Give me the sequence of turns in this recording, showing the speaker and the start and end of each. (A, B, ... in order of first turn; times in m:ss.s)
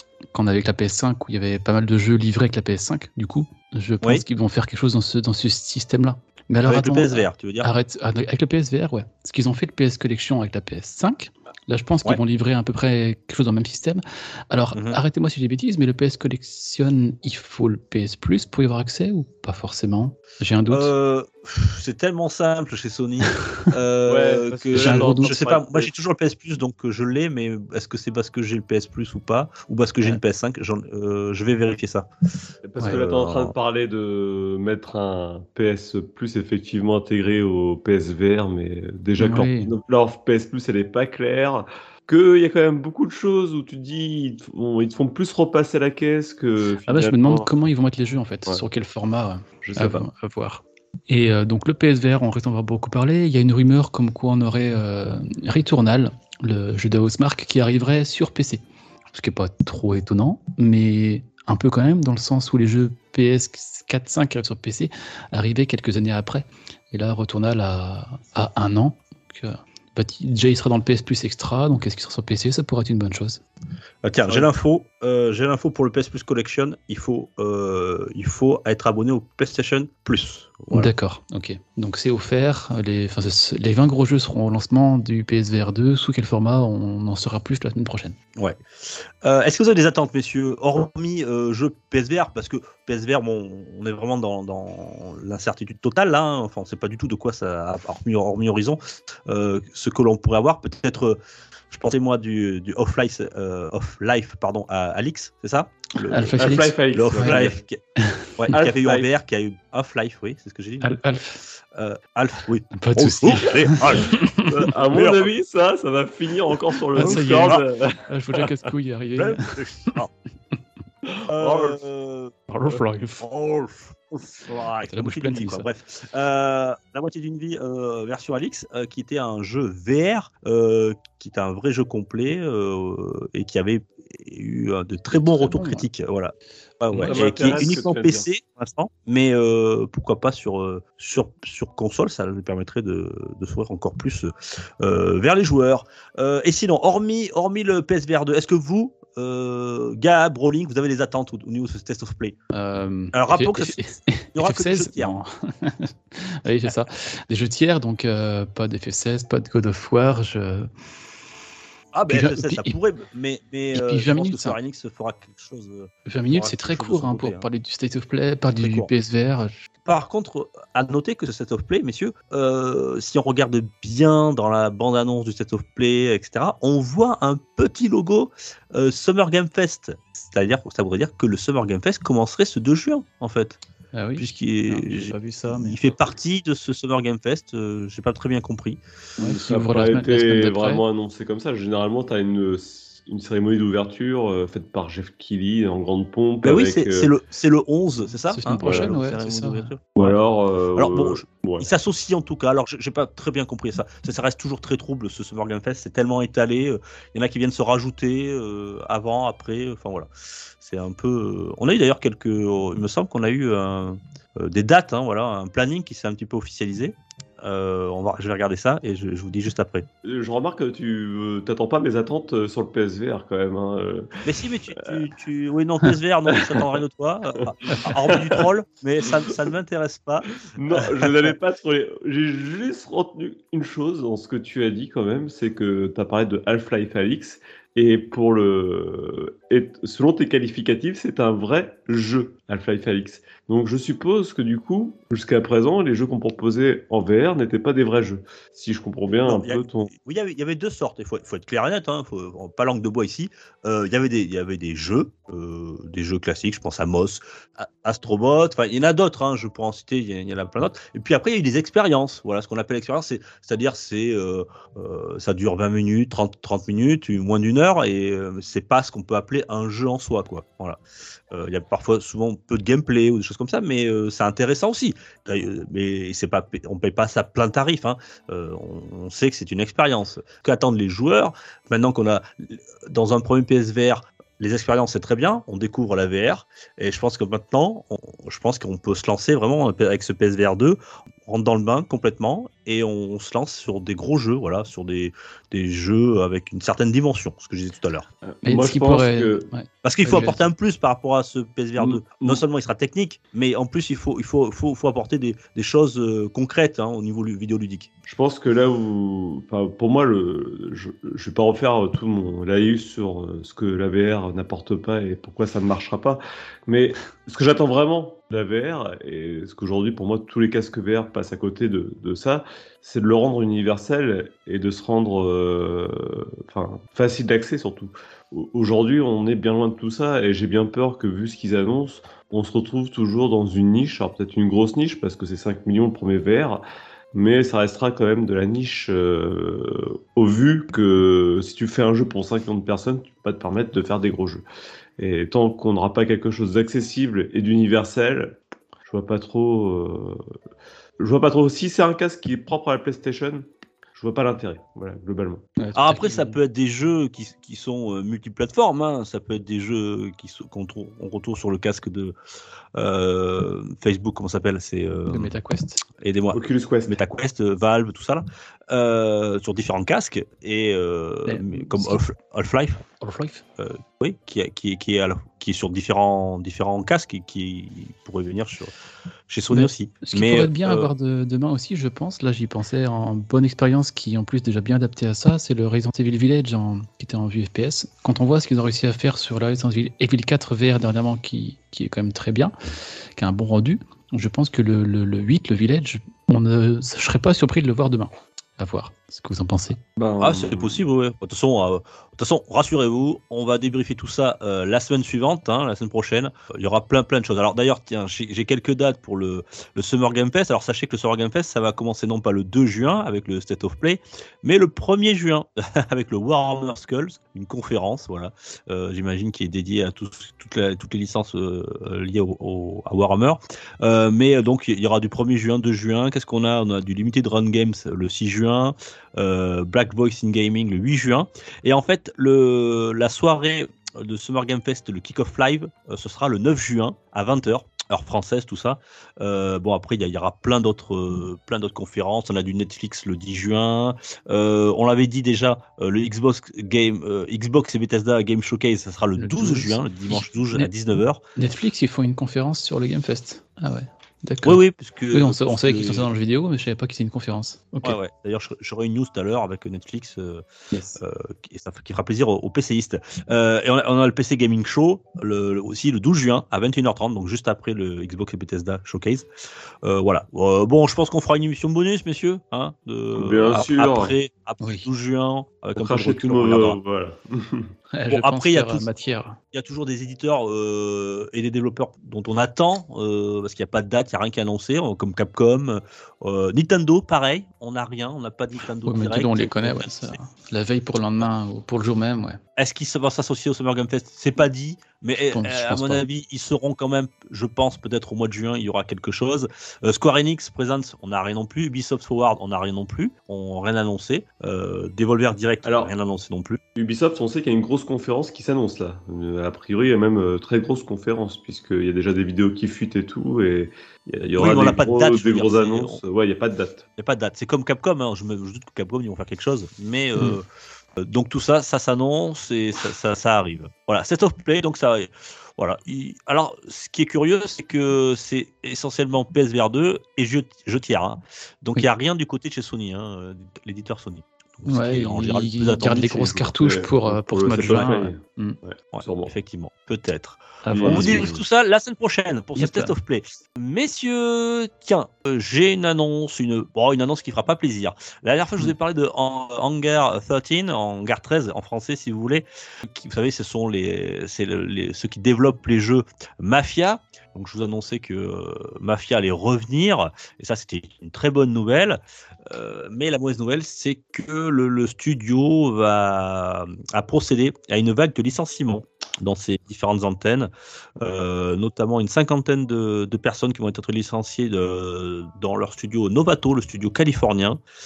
0:00.3-0:20.9 A
0:06.7-0:07.7 B
0:14.7-0:15.0 B
0:20.7-0:32.1 B
0:24.1-0:25.9 C
0:24.7-0:25.4 A
0:32.6-0:47.5 C
0:32.8-0:33.5 B
0:39.2-0:39.7 A
0:46.9-1:13.4 A
0:49.6-0:50.1 C
1:14.0-1:20.9 B
1:20.7-1:28.2 A
1:28.4-1:41.2 B
1:41.7-1:47.8 B
1:46.1-1:48.3 A
1:46.4-1:47.6 C
1:48.4-1:54.2 B
1:48.5-1:49.1 C
1:50.8-1:51.4 A
1:52.8-1:54.5 A
1:54.4-1:58.1 C
1:54.8-1:55.3 B
1:57.0-2:00.0 A
1:57.0-1:57.6 B
1:59.2-2:00.1 B
2:01.3-2:32.4 B
2:01.3-2:01.8 C
2:02.5-2:03.2 A
2:04.9-2:05.7 A
2:15.1-2:15.9 A
2:16.9-2:17.6 A
2:17.1-2:18.3 C
2:32.5-2:40.7 A
2:33.1-2:33.8 B
2:34.4-2:35.1 B
2:41.9-2:47.5 B
2:42.1-2:42.8 A
2:43.7-2:44.6 A
2:46.1-2:49.6 A
2:48.5-2:48.9 B
2:49.9-3:03.6 B
3:03.9-3:05.8 A
3:04.2-3:08.8 B
3:09.2-3:10.8 A
3:09.2-3:17.1 C
3:16.4-3:20.2 B
3:18.4-3:19.7 A
3:18.6-3:19.0 C
3:20.0-3:21.7 C
3:20.8-3:30.1 B
3:30.6-3:39.9 B
3:40.0-3:44.1 C
3:44.2-3:51.1 B
3:46.4-3:46.6 C
3:47.8-3:48.5 C
3:50.6-4:09.9 C
4:09.3-4:30.8 B
4:31.3-4:58.1 B
4:58.3-4:59.5 C
4:58.4-5:00.4 A
4:59.8-5:07.9 B
5:01.8-5:02.4 C
5:08.1-5:36.6 C
5:37.1-5:44.4 C
5:45.0-5:50.2 C
5:51.0-5:55.5 C
5:55.6-5:56.4 A
5:55.8-6:02.2 B
6:02.8-6:05.4 B
6:05.1-6:05.8 A
6:06.0-6:12.9 B
6:06.3-6:07.0 C
6:11.3-6:12.0 A
6:13.0-6:13.4 A
6:13.6-6:18.7 B
6:19.3-6:20.9 B
6:19.5-6:32.5 A
6:33.2-6:39.8 A
6:40.0-6:40.8 C
6:40.2-7:31.2 B
7:29.2-7:30.7 A
7:31.4-7:34.6 A
7:34.4-7:36.1 B
7:35.1-7:38.0 A
7:37.8-7:40.4 B
7:40.7-7:41.0 A
7:41.0-7:49.3 B
7:49.8-7:56.8 B
7:53.2-7:54.2 C
7:54.6-7:54.9 A
7:55.8-7:57.7 C
7:57.9-7:59.4 A
7:58.1-7:58.9 B
7:59.5-8:10.2 B
8:08.8-8:12.4 A
8:12.6-8:26.6 B
8:15.3-8:16.0 A
8:25.6-8:25.9 C
8:26.8-8:36.8 C
8:34.4-8:36.0 B
8:37.0-8:40.5 B
8:41.0-8:56.5 B
8:54.6-8:58.6 A
8:56.6-8:59.4 C
8:58.9-9:30.5 B
9:00.6-9:01.3 A
9:00.7-9:01.4 C
9:02.6-9:02.9 A
9:31.0-9:37.6 B